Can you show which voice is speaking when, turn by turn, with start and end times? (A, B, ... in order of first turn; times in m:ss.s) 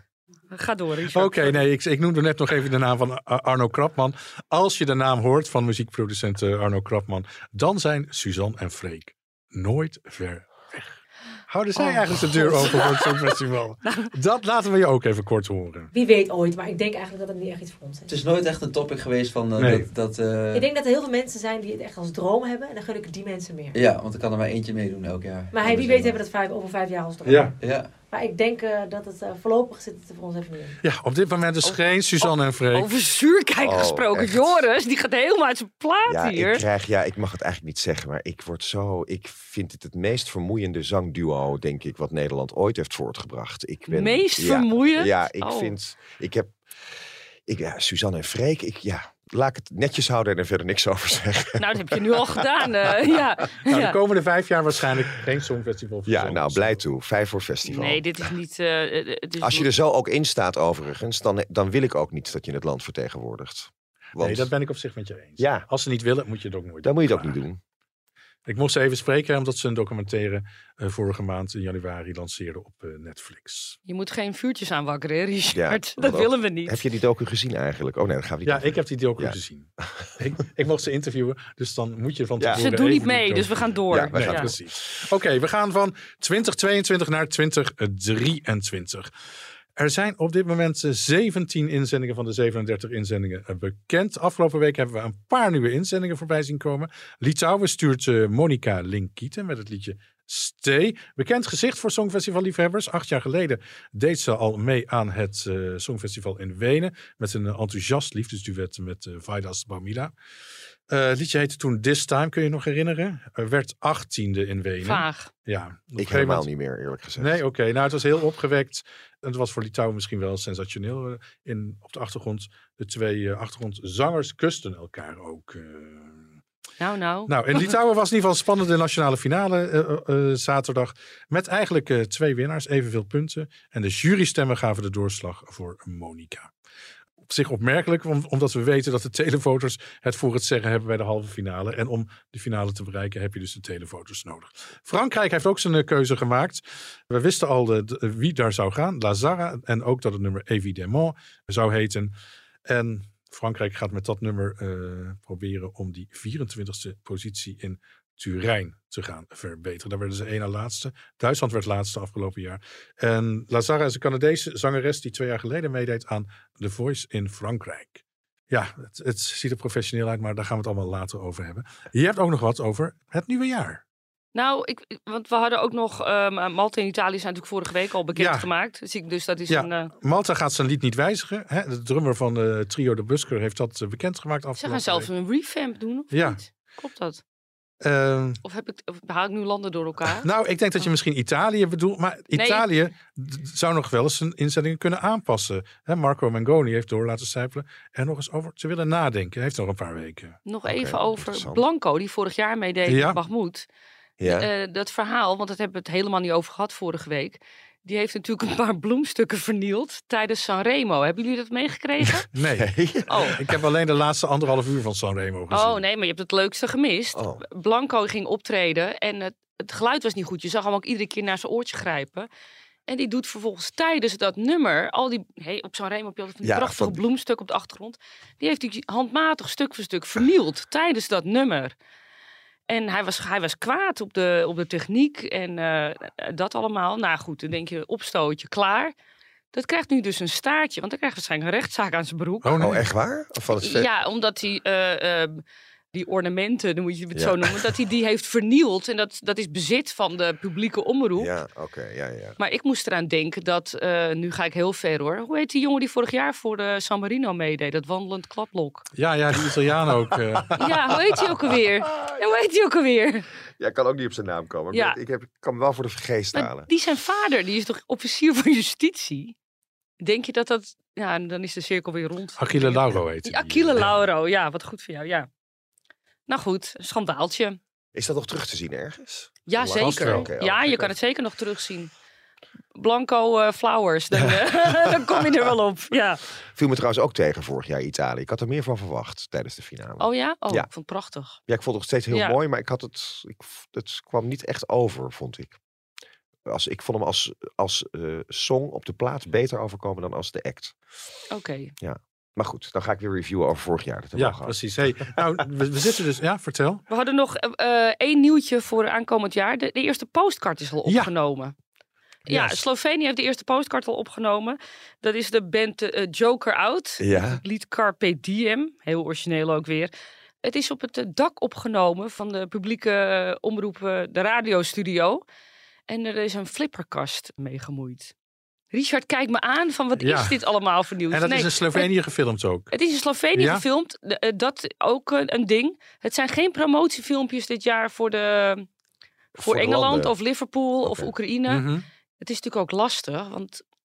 0:00.5-0:01.6 A
0:01.1-0:15.9 B
0:11.8-0:14.1 A
0:15.9-0:18.2 C
0:18.1-0:20.7 D
0:19.6-0:19.9 B
0:20.5-0:23.8 C
0:23.7-0:26.2 D
0:25.5-0:30.8 C
0:27.2-0:27.5 B
0:27.6-0:27.9 D
0:30.8-0:32.9 B
0:31.6-0:36.6 A
0:33.6-0:34.6 E
0:36.1-0:46.6 E
0:43.9-0:45.7 A
0:47.4-0:52.9 E
0:51.6-0:54.0 A
0:53.7-0:56.8 B
0:56.0-0:58.2 E
0:57.6-0:59.7 A
0:59.4-1:04.5 E
1:04.2-1:07.4 B
1:05.4-1:05.6 E
1:06.8-1:07.6 E
1:08.5-1:13.8 B
1:13.9-1:16.8 A
1:15.5-1:19.4 E
1:18.4-1:29.1 B
1:22.5-1:24.5 A
1:23.9-1:24.7 E
1:29.8-1:50.1 B
1:50.9-1:56.4 B
1:54.8-1:55.3 A
1:56.0-1:57.4 E
1:57.2-2:06.3 B
2:06.8-2:07.7 A
2:07.3-2:16.5 B
2:17.3-2:32.1 B
2:32.7-2:53.8 B
2:54.3-2:59.9 A
2:58.2-2:58.5 B
2:59.5-3:05.1 B
3:04.6-3:07.2 A
3:06.1-3:06.4 B
3:07.8-3:08.4 B
3:08.4-3:10.9 A
3:10.2-3:20.4 B
3:12.3-3:12.7 A
3:20.4-3:23.7 A
3:20.6-3:21.6 E
3:22.9-3:23.2 B
3:24.2-3:24.5 E
3:24.2-3:32.3 A
3:32.3-3:32.7 B
3:32.6-3:33.4 E
3:33.1-3:33.4 A
3:33.3-3:35.8 B
3:35.5-3:42.3 A
3:37.1-3:37.4 E
3:42.9-3:51.7 A
3:46.4-3:47.0 E
3:52.7-3:58.9 A
3:59.5-4:02.6 A
4:02.4-4:02.8 B
4:02.6-4:03.9 E
4:03.6-4:11.3 A
4:07.1-4:07.5 E
4:11.2-4:12.4 E
4:12.4-4:18.8 A
4:19.0-4:20.7 B
4:20.6-4:23.3 A
4:23.6-4:26.7 E
4:24.7-4:25.0 A
4:26.3-4:29.3 A
4:30.0-4:35.3 A
4:32.4-4:33.9 B
4:36.3-4:37.6 A
4:37.9-4:40.9 E
4:39.5-4:41.9 A
4:39.8-4:40.3 B
4:42.7-4:46.2 A
4:44.2-4:45.3 E
4:46.5-4:50.7 E
4:50.0-4:51.4 A
4:51.5-4:55.6 E
4:52.1-4:52.4 A
4:56.4-5:00.8 E
5:01.3-5:01.7 A
5:01.8-5:05.2 E
5:04.2-5:06.8 B
5:06.9-5:11.5 A
5:10.8-5:11.1 B
5:12.3-5:19.9 A
5:12.3-5:12.6 B
5:17.0-5:17.4 E
5:20.4-5:25.2 A
5:25.9-5:28.1 A
5:28.7-5:31.9 A
5:30.0-5:30.4 B
5:31.1-5:32.7 B
5:32.7-5:38.7 A
5:33.3-5:33.6 B
5:39.4-5:40.1 E
5:39.4-5:41.6 A
5:40.8-5:41.1 E
5:41.5-5:41.8 B
5:42.2-5:43.6 A